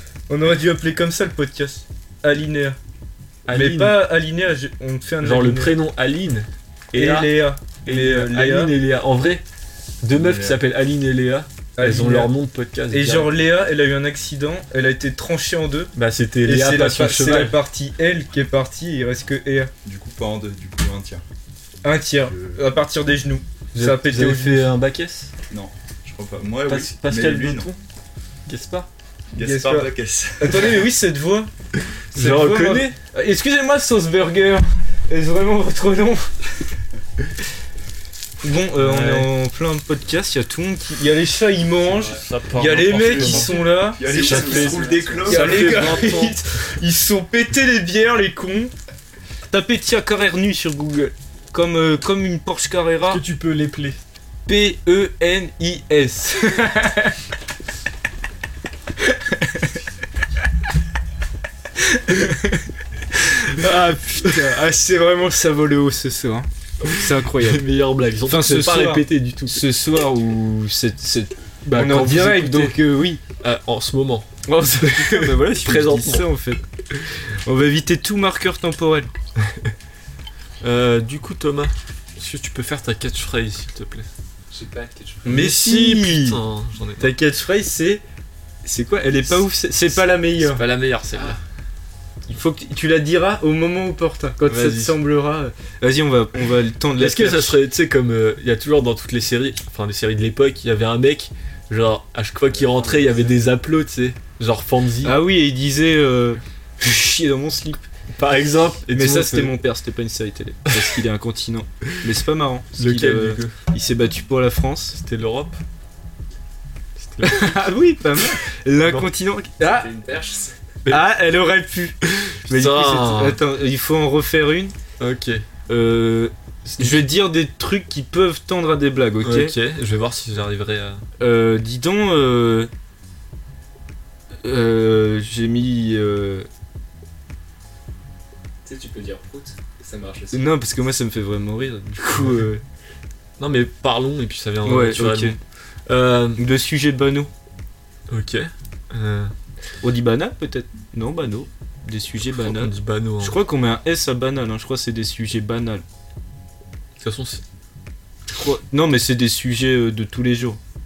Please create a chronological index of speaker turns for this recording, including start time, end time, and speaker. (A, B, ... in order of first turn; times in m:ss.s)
0:00.3-0:02.8 A
0:03.4-0:04.0 B
0:03.5-0:05.8 A
0:05.2-0:07.3 B
0:06.9-0:08.7 A
0:07.8-0:09.4 B
0:10.0-0:13.4 B
0:10.1-0:10.6 C
0:11.8-0:12.3 A
0:12.9-0:15.9 A
0:15.9-0:17.6 B
0:16.4-0:19.7 A
0:19.8-0:21.2 C
0:21.8-0:24.7 A
0:22.2-0:22.6 C
0:23.7-0:25.3 B
0:25.5-0:27.7 C
0:26.6-0:27.8 B
0:28.4-0:28.9 B
0:29.3-0:30.9 C
0:29.4-0:31.5 A
0:32.1-0:33.0 B
0:32.1-0:36.3 A
0:38.4-0:48.7 A
0:38.8-0:39.3 B
0:42.0-0:46.4 B
0:42.8-0:46.0 C
0:44.1-0:45.2 D
0:49.5-0:53.2 A
0:53.1-0:54.0 B
0:54.4-0:57.2 A
0:59.0-0:59.7 A
1:01.8-1:07.6 A
1:06.9-1:09.6 B
1:08.3-1:13.2 A
1:11.6-1:12.8 B
1:13.4-1:14.3 B
1:14.4-1:16.6 A
1:14.8-1:16.3 B
1:17.4-1:19.1 A
1:19.4-1:19.7 B
1:20.6-1:24.1 B
1:24.5-1:25.3 D
1:25.2-1:26.4 A
1:25.2-1:27.2 B
1:27.0-1:28.0 A
1:28.6-1:30.6 A
1:30.4-1:31.4 B
1:32.3-1:37.6 A
1:34.5-1:35.0 B
1:37.0-1:45.1 B
1:45.0-1:47.8 A
1:48.1-1:49.5 B
1:48.9-1:55.0 A
1:52.8-1:53.6 B
1:54.9-1:55.6 B
1:57.0-1:57.6 B
1:57.2-1:59.9 A
1:59.6-2:00.5 D
2:00.9-2:02.0 A
2:02.0-2:03.4 B
2:02.5-2:04.7 A
2:05.0-2:05.4 B
2:05.7-2:09.5 A
2:06.6-2:07.1 B
2:09.2-2:11.0 B
2:11.2-2:12.7 A
2:14.4-2:16.5 A
2:18.6-2:20.5 D
2:20.3-2:22.6 A
2:23.4-2:26.4 B
2:24.6-2:25.4 A
2:26.4-2:27.3 A
2:28.1-2:29.3 B
2:29.8-2:35.8 A
2:32.4-2:33.4 B
2:37.0-2:37.4 B
2:38.3-2:40.6 A